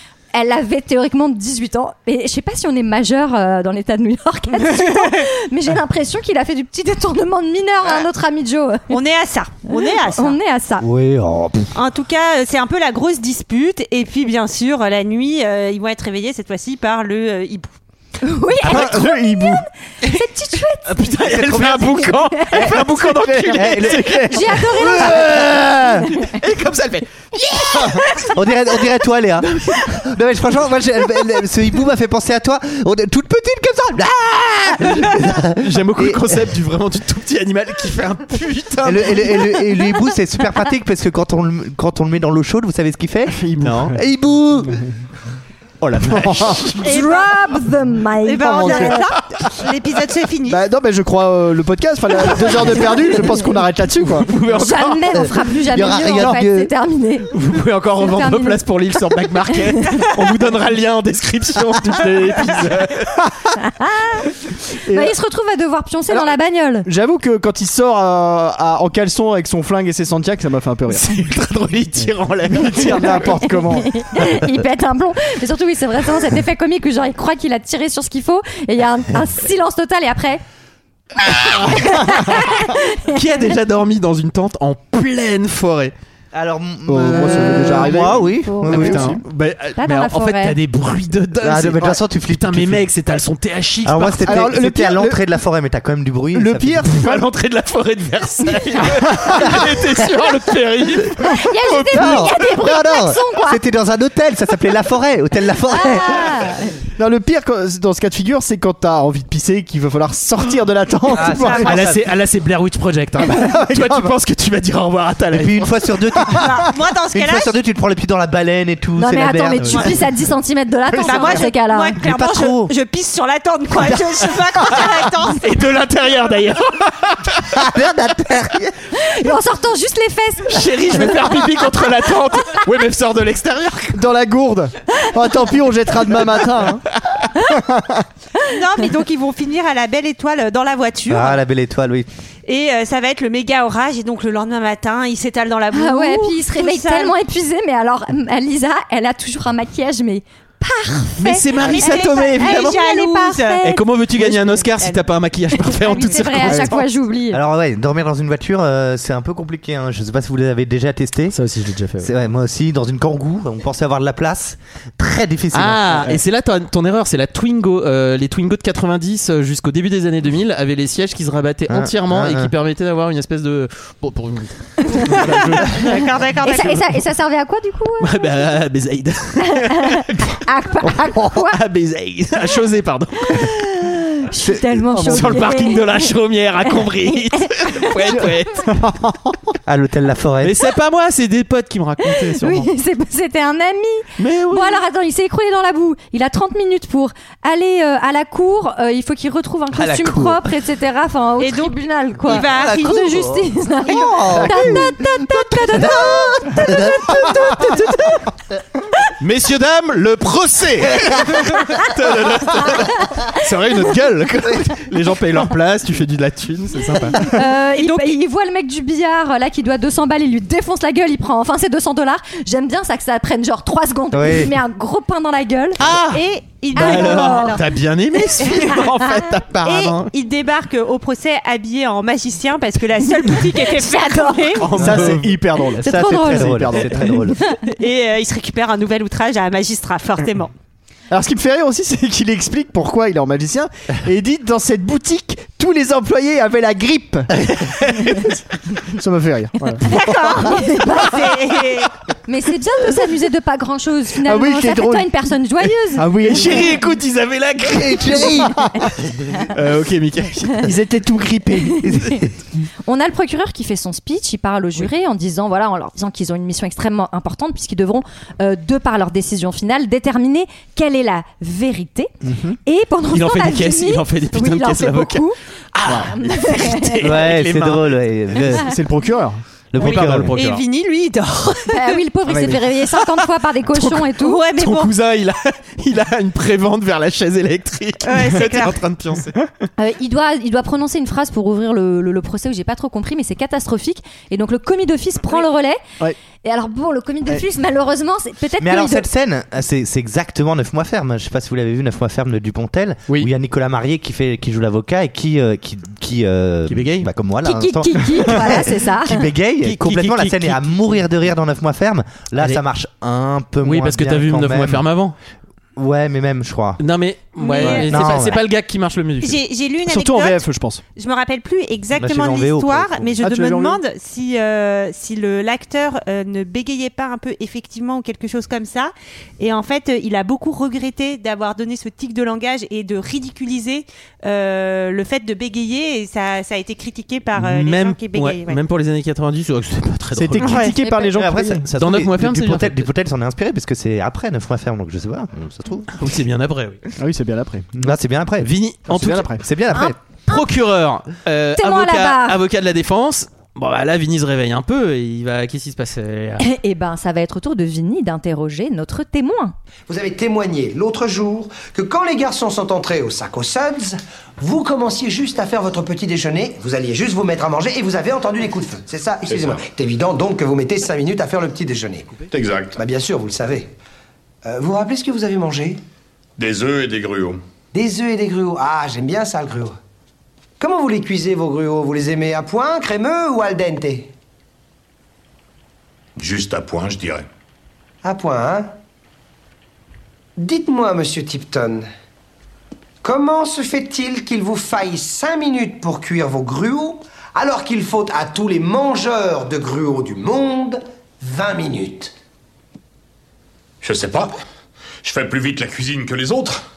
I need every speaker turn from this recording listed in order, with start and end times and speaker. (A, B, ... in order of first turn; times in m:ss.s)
0:00.3-0:09.0 A
0:04.6-0:05.3 B
0:08.9-0:10.4 B
0:09.7-0:10.9 A
0:10.8-0:11.7 C
0:11.7-0:17.7 B
0:18.2-0:22.8 A
0:18.6-0:19.7 D
0:20.9-0:28.1 E
0:21.2-0:22.0 C
0:22.8-0:25.5 D
0:23.5-0:24.2 C
0:24.3-0:25.2 A
0:25.0-0:25.3 C
0:28.3-0:36.4 C
0:29.6-0:29.9 E
0:35.5-0:39.6 E
0:38.8-0:43.4 C
0:43.3-0:44.0 D
0:43.6-0:44.0 E
0:43.9-0:44.8 C
0:45.8-0:46.9 E
0:46.0-0:46.8 D
0:46.8-0:49.1 A
0:46.9-0:47.2 B
0:48.2-0:50.6 B
0:48.4-0:49.0 D
0:50.5-0:54.3 D
0:52.4-0:53.2 B
0:54.0-0:55.2 E
0:54.5-0:57.3 A
0:55.1-0:56.7 C
0:57.3-1:03.1 E
0:58.0-0:58.6 A
1:03.6-1:04.3 A
1:04.9-1:05.2 D
1:04.9-1:06.9 A
1:06.9-1:11.1 D
1:10.9-1:13.3 E
1:12.5-1:13.9 D
1:13.7-1:20.4 A
1:21.8-1:22.2 D
1:21.8-1:23.1 A
1:23.1-1:25.9 E
1:26.3-1:29.2 C
1:26.9-1:29.2 D
1:27.2-1:29.0 A
1:28.7-1:34.5 E
1:29.8-1:30.6 A
1:31.4-1:32.9 C
1:33.8-1:36.9 C
1:34.2-1:35.2 D
1:36.4-1:37.2 D
1:36.9-1:42.3 E
1:39.1-1:39.6 D
1:41.3-1:43.6 A
1:41.9-1:46.3 C
1:45.7-1:46.7 A
1:47.0-1:51.8 D
1:51.1-1:52.0 C
1:51.3-1:51.8 B
1:51.5-1:55.7 E
1:53.3-1:54.1 D
1:55.3-2:00.0 C
1:56.3-1:57.5 B
1:59.0-2:02.0 A
1:59.6-1:59.9 E
2:00.9-2:01.5 D
2:01.0-2:05.5 B
2:02.0-2:02.7 C
2:05.4-2:07.4 E
2:07.5-2:08.8 C
2:09.0-2:10.7 A
2:10.5-2:14.0 E
2:13.9-2:16.8 D
2:17.4-2:18.0 D
2:18.5-2:21.4 B
2:21.1-2:22.1 C
2:22.5-2:27.2 B
2:25.7-2:33.8 A
2:31.2-2:32.8 E
2:31.5-2:35.1 B
2:33.6-2:36.8 E
2:35.6-2:37.4 A
2:36.4-2:36.7 D
2:37.3-2:41.4 C
2:41.3-2:42.1 E
2:42.0-2:46.2 C
2:45.5-2:56.1 E
2:51.7-2:52.5 C
2:55.6-2:56.8 B
2:56.4-2:58.3 A
2:58.0-3:00.3 E
2:59.5-3:01.6 A
3:01.4-3:03.5 E
3:03.3-3:06.1 A
3:04.4-3:04.9 C
3:05.0-3:05.4 D
3:05.1-3:08.7 E
3:07.0-3:08.2 A
3:08.7-3:09.3 D
3:09.7-3:10.6 C
3:10.4-3:12.7 E
3:12.1-3:28.2 A
3:14.2-3:14.8 E
3:19.8-3:20.4 E
3:21.4-3:23.4 B
3:22.4-3:27.7 C
3:24.3-3:24.9 D
3:29.2-3:37.2 E
3:37.2-3:45.8 A
3:37.7-3:38.2 B
3:44.1-3:44.5 C
3:45.8-3:46.2 E
3:46.1-3:47.6 B
3:46.7-3:50.1 E
3:46.8-3:47.6 A
3:49.6-3:54.7 B
3:53.5-3:54.6 A
3:54.6-3:55.3 E
3:54.7-3:57.2 D
3:55.8-3:57.4 C
3:55.8-3:57.6 A
3:57.7-4:00.5 B
4:01.1-4:07.3 D
4:08.9-4:09.9 D
4:09.8-4:11.9 B
4:10.5-4:11.2 A
4:12.3-4:16.1 A
4:14.2-4:15.1 D
4:16.0-4:16.7 D
4:16.3-4:18.3 E
4:17.6-4:18.6 C
4:19.5-4:20.7 E
4:20.6-4:21.9 D
4:21.9-4:22.3 C
4:21.9-4:22.2 A
4:22.8-4:32.1 A
4:32.2-4:32.6 D
4:32.7-4:35.4 A
4:33.1-4:38.0 E
4:35.8-4:36.1 D
4:36.1-4:37.1 A
4:37.0-4:38.7 C
4:38.6-4:39.4 D
4:39.7-4:40.3 C
4:39.8-4:40.6 E
4:39.8-4:42.0 B
4:41.7-4:44.4 A
4:42.3-4:42.6 D
4:43.7-4:49.4 E
4:44.2-4:44.9 B
4:48.0-4:48.8 B
4:49.8-4:55.8 A
4:56.4-4:59.1 A
4:58.6-5:14.8 C
5:06.7-5:07.1 E
5:07.4-5:09.3 A
5:09.6-5:10.8 E
5:13.6-5:15.2 E
5:15.8-5:16.8 C
5:16.8-5:19.4 E
5:17.4-5:18.2 B
5:17.6-5:18.4 C
5:19.2-5:38.6 B
5:19.8-5:20.8 D
5:22.0-5:23.2 C
5:23.2-5:23.8 D
5:37.4-5:40.7 E
5:40.2-5:45.9 C
5:40.3-5:41.7 D
5:40.8-5:41.1 A
5:41.8-5:42.9 E
5:45.9-5:46.9 E
5:47.0-5:47.7 D
5:47.8-5:48.5 C
5:48.4-5:49.3 E
5:48.9-5:49.4 D
5:49.4-5:50.0 C
5:49.7-5:50.4 A
5:50.3-5:56.4 E
5:51.6-5:52.4 A
5:56.4-5:59.6 A
5:59.9-6:12.2 F
6:09.3-6:09.6 G
6:12.3-6:12.8 G
6:12.7-6:13.7 F
6:14.4-6:15.8 F
6:16.4-6:17.4 G
6:17.7-6:19.8 F
6:20.6-6:24.1 F
6:26.2-6:27.2 G
6:28.0-6:28.7 F
6:30.4-6:31.9 F
6:33.0-6:42.1 F
6:43.8-6:44.3 G
6:45.0-6:46.6 G